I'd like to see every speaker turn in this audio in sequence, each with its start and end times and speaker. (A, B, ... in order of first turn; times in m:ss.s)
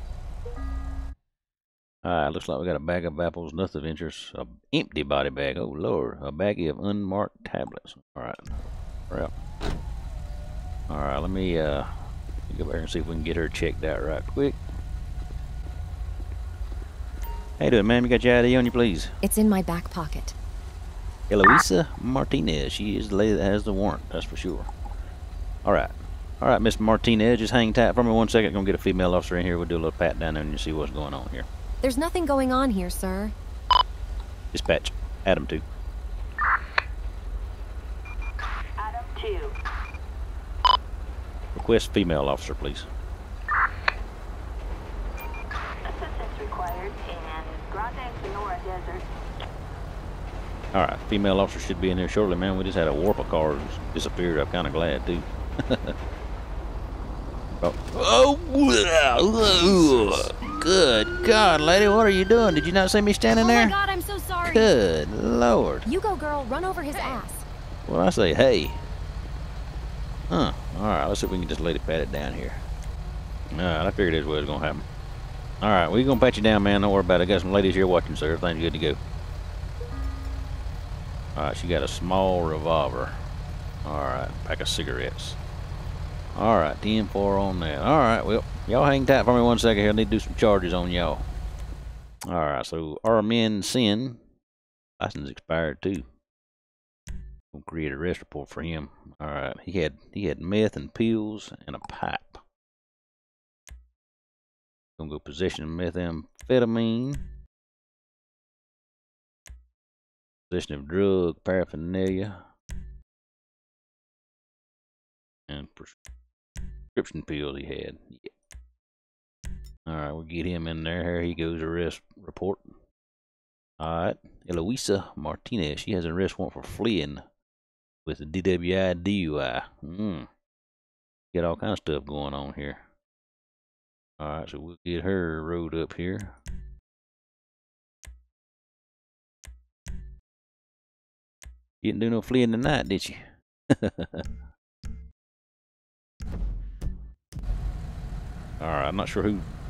0:02.0-0:08.6 A
0:10.9-0:11.9 A
0:12.5-0:14.6 A
0:17.6-0:19.1 A
0:19.2-0:20.4 B
0:21.3-0:24.7 A
0:25.6-0:31.5 A
0:31.8-0:33.3 B
0:34.5-0:35.6 A
0:38.8-0:39.5 C
0:41.5-0:42.9 A
0:45.8-0:49.0 C
0:50.7-0:55.9 A
0:57.6-1:03.7 A
1:03.3-1:04.7 B
1:04.4-1:05.8 A
1:05.8-1:07.4 B
1:07.9-1:08.8 A
1:10.3-1:12.6 A
1:13.5-1:14.8 A
1:15.6-1:19.0 A
1:21.4-1:23.2 A
1:23.8-1:25.4 A
1:26.3-1:31.2 A
1:32.3-1:34.2 A
1:35.0-1:36.0 A
1:37.5-1:42.4 A
1:45.0-1:47.2 A
1:50.5-1:52.4 A
1:55.5-1:55.9 A
1:56.9-1:58.3 A
1:59.8-2:02.7 A
2:03.8-2:07.2 A
2:08.0-2:10.3 A
2:11.3-2:12.8 A
2:14.2-2:16.3 A
2:21.8-2:24.3 A
2:28.6-2:29.4 A